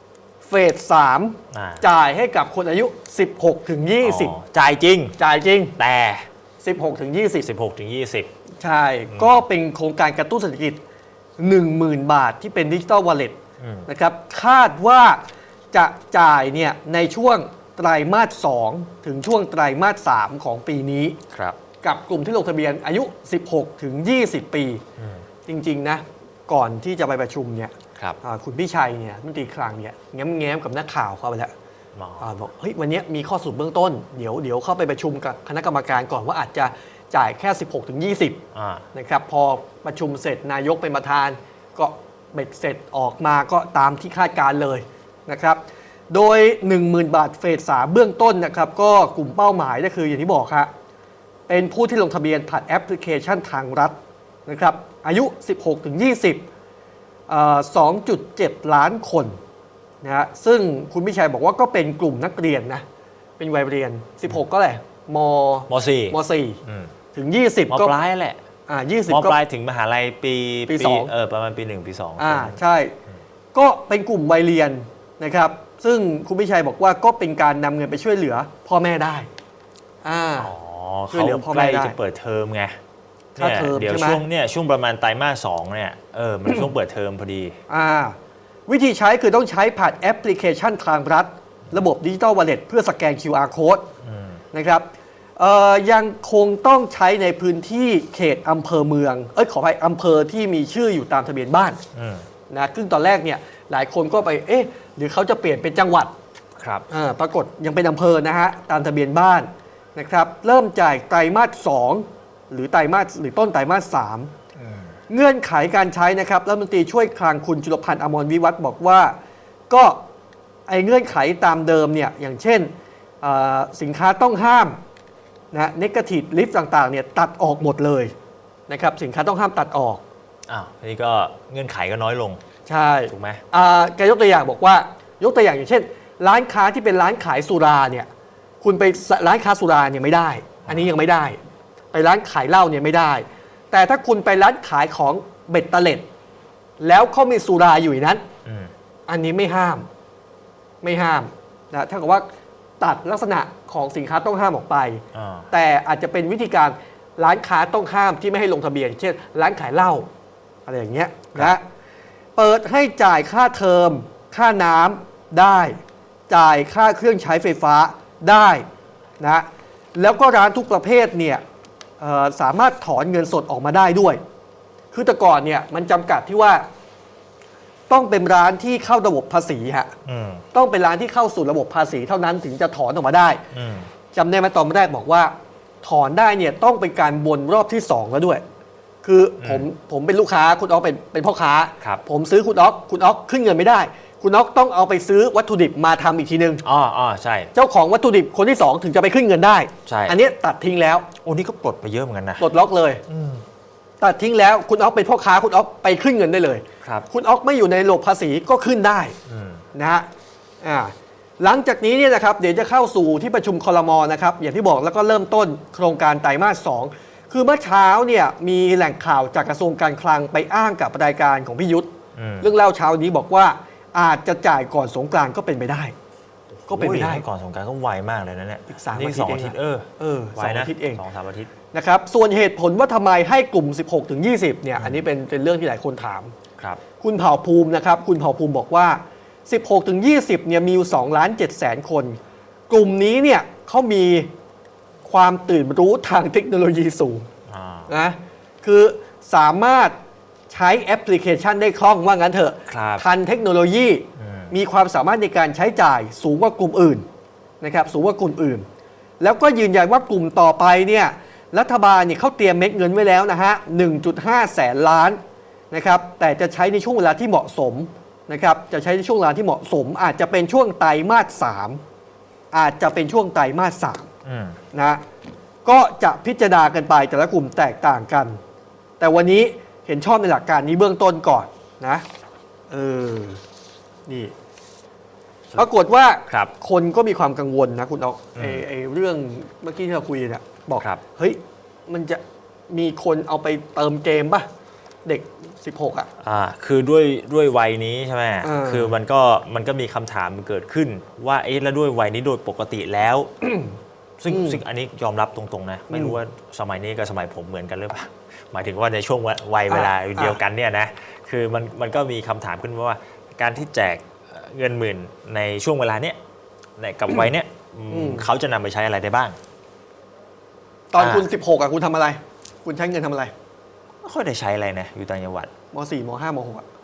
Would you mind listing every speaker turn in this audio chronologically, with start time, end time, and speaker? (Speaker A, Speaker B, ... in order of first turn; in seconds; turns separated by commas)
Speaker A: 0.4-4.3, Speaker B: 1.5-1.8, Speaker B: 4.0-5.2, Speaker A: 5.2-5.8, Speaker B: 5.8-6.3, Speaker A: 6.6-7.5, Speaker B: 7.4-8.3, Speaker A: 8.6-10.8, Speaker B: 9.1-9.4, Speaker A: 11.4-13.3, Speaker B: 13.6-13.9, Speaker A: 13.9-15.2, Speaker A: 15.7-21.2, Speaker B: 21.3-21.6, Speaker A: 21.8-24.8, Speaker B: 25.0-25.2, Speaker A: 25.5-31.5, Speaker B: 31.9-32.3, Speaker A: 32.2-38.4, Speaker B: 38.5-38.9, Speaker A: 38.9-50.7, Speaker A: 51.5-56.4, Speaker A: 57.3-59.4, Speaker A: 60.0-62.8, Speaker A: 63.4-66.6, Speaker B: 65.7-66.9, Speaker A: 67.1-67.9, Speaker B: 67.7-68.4, Speaker A: 68.7-69.4, Speaker B: 69.1-72.6, Speaker A: 70.7-71.1, Speaker A: 72.2-72.9, Speaker A: 73.5-79.3, Speaker A: 80.0-80.5, Speaker B: 80.4-82.8, Speaker A: 81.1-82.0, Speaker B: 83.3-87.5, Speaker A: 83.4-84.2, Speaker A: 87.7-88.2, Speaker A: 88.7-93.8, Speaker B: 94.0-94.4, Speaker A: 94.5-94.8, Speaker A: 95.4-101.8, Speaker B: 101.9-102.2, Speaker A: 102.5-106.1, Speaker B: 106.6-106.8, Speaker A: 106.9-114.3, Speaker B: 114.6-114.8, Speaker A: 115.1-119.2, Speaker A: 119.7-120.0, Speaker A: 120.7-122.7, Speaker A: 123.2-124.8, Speaker A: 125.5-128.1, Speaker A: 128.7-130.0, Speaker B: 130.5-132.4, Speaker A: 132.7-138.1, Speaker B: 133.1-133.4, Speaker A: 138.6-141.4, Speaker A: 141.9-146.0, Speaker A: 146.8-148.2, Speaker B: 148.4-148.7, Speaker A: 149.1-149.9, Speaker A: 150.8-152.2, Speaker A: 152.8-160.1, Speaker B: 155.1-155.5, Speaker A: 160.7-161.6, Speaker A: 162.3-168.7, Speaker A: 169.2-171.4, Speaker A: 172.0-174.2, Speaker A: 174.9-176.6, Speaker A: 177.9-179.9, Speaker B: 180.1-180.4, Speaker A: 180.5-183.4, Speaker B: 183.5-183.9, Speaker A: 184.1-188.4, Speaker A: 189.0-196.6, Speaker B: 189.4-189.7, Speaker B: 196.6-197.5, Speaker A: 197.5-201.1, Speaker B: 199.8-200.2, Speaker B: 201.2-202.4, Speaker A: 202.4-203.0, Speaker B: 203.1-203.4, Speaker A: 204.0-209.2, Speaker B: 209.3-209.6, Speaker A: 209.7-210.1, Speaker A: 210.6-221.9, Speaker B: 222.2-222.5, Speaker A: 222.4-225.9, Speaker B: 226.6-231.5, Speaker A: 226.7-227.2, Speaker A: 228.7-231.0, Speaker A: 231.7-236.3, Speaker B: 234.8-235.0, Speaker A: 237.0-242.2, Speaker A: 242.7-244.3, Speaker A: 245.0-247.3, Speaker B: 247.5-247.9, Speaker A: 247.9-249.9, Speaker A: 250.5-257.0, Speaker B: 252.7-253.1, Speaker B: 254.2-254.6, Speaker A: 257.6-258.6, Speaker A: 259.2-265.2, Speaker A: 265.7-271.8, Speaker A: 272.5-274.1, Speaker B: 274.2-274.6, Speaker A: 274.7-275.0, Speaker A: 275.6-278.4, Speaker A: 279.0-282.0, Speaker A: 282.7-283.4, Speaker A: 284.1-284.3, Speaker A: 285.6-294.5, Speaker B: 286.3-286.5, Speaker B: 288.4-288.6, Speaker A: 295.0-296.1, Speaker B: 296.2-303.3, Speaker A: 298.4-298.9, Speaker A: 303.4-303.7, Speaker B: 304.2-316.2, Speaker A: 304.3-304.6, Speaker A: 305.9-306.2, Speaker A: 309.7-310.4, Speaker B: 316.8-319.4, Speaker A: 317.9-318.3, Speaker A: 320.9-323.3, Speaker B: 321.0-321.3, Speaker B: 324.0-325.5, Speaker A: 325.7-326.6